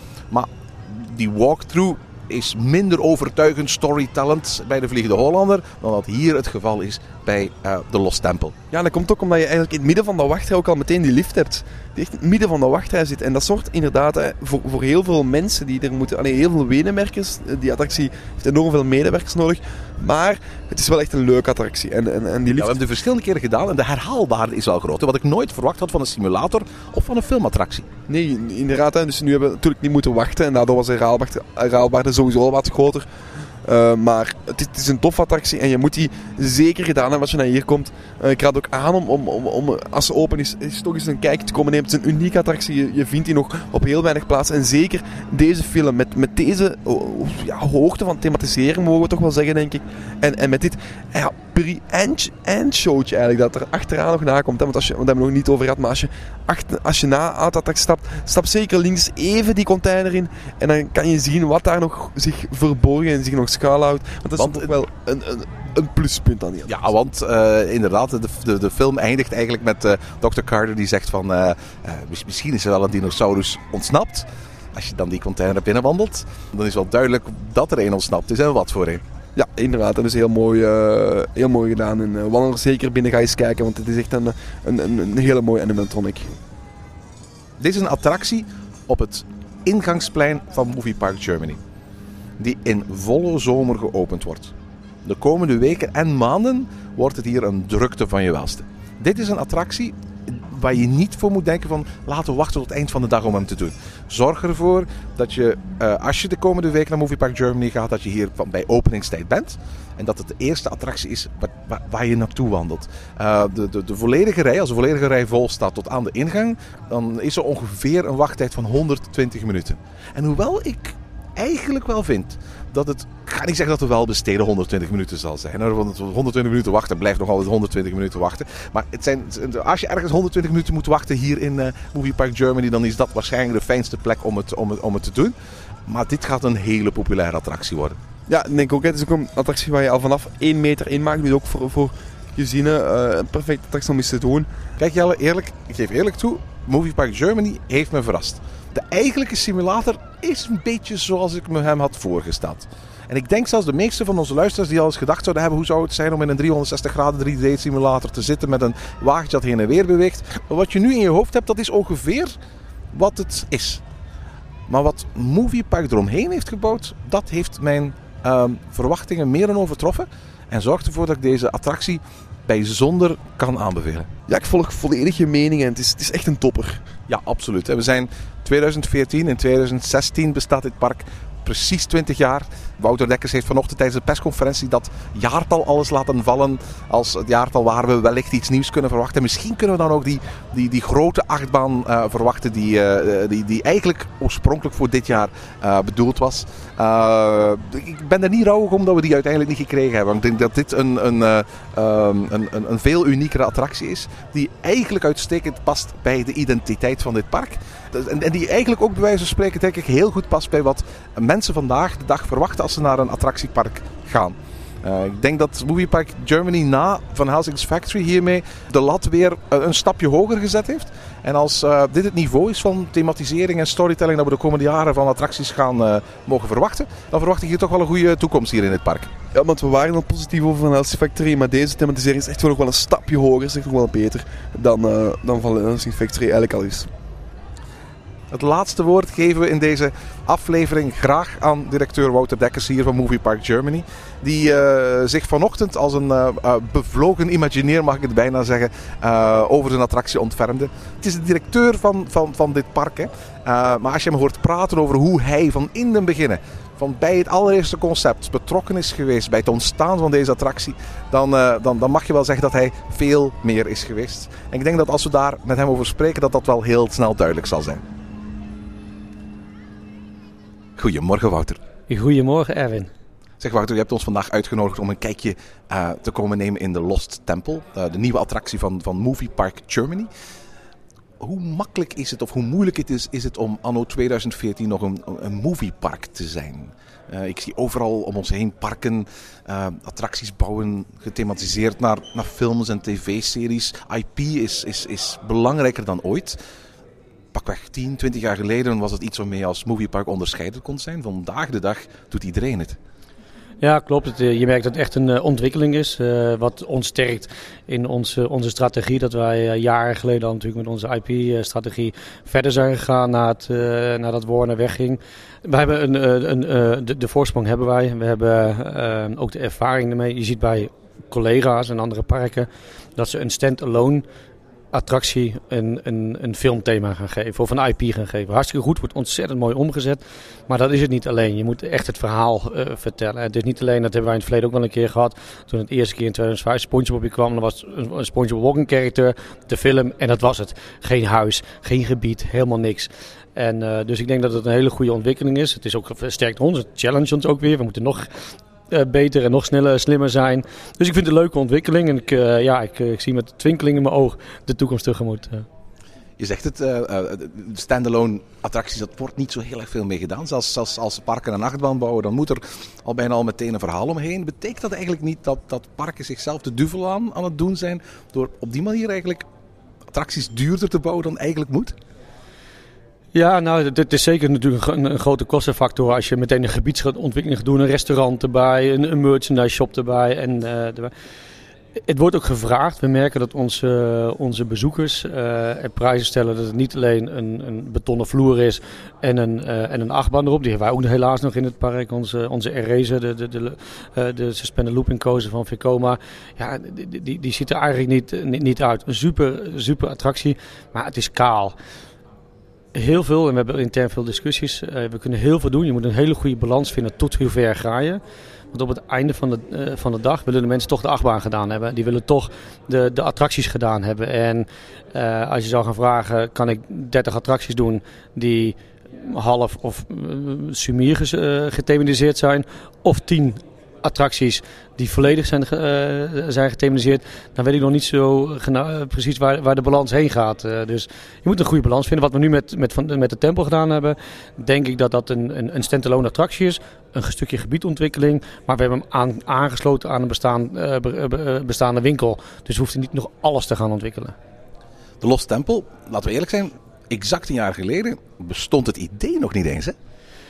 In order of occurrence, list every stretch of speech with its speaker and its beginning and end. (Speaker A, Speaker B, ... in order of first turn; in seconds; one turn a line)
Speaker A: 0.3-8.6
Speaker B: 8.7-22.8
Speaker A: 22.6-27.9
Speaker B: 28.1-33.1
Speaker B: 33.6-66.7
Speaker A: 64.4-64.7
Speaker A: 66.7-79.0
Speaker B: 79.4-86.3
Speaker A: 87.6-91.6
Speaker A: 92.4-94.5
Speaker A: 95.0-135.3
Speaker A: 135.9-138.0
Speaker B: 138.3-144.5
Speaker A: 144.8-162.3
Speaker A: 162.9-163.8
Speaker A: 164.7-174.1
Speaker B: 174.3-176.8
Speaker A: 177.1-229.1
Speaker B: 229.3-236.9
Speaker A: 238.3-267.8
Speaker A: 270.8-271.6
Speaker C: 271.9-272.9
Speaker A: 273.4-280.1
Speaker A: 281.2-296.4
Speaker A: 297.3-302.8
Speaker C: 303.6-324.0
Speaker C: 324.7-348.1
Speaker C: 348.7-355.5
Speaker A: 356.2-369.2
Speaker A: 369.9-371.8
Speaker C: 373.1-380.9
Speaker C: 381.9-401.6
Speaker C: 402.8-408.0
Speaker C: 408.5-444.1
Speaker A: 445.0-449.8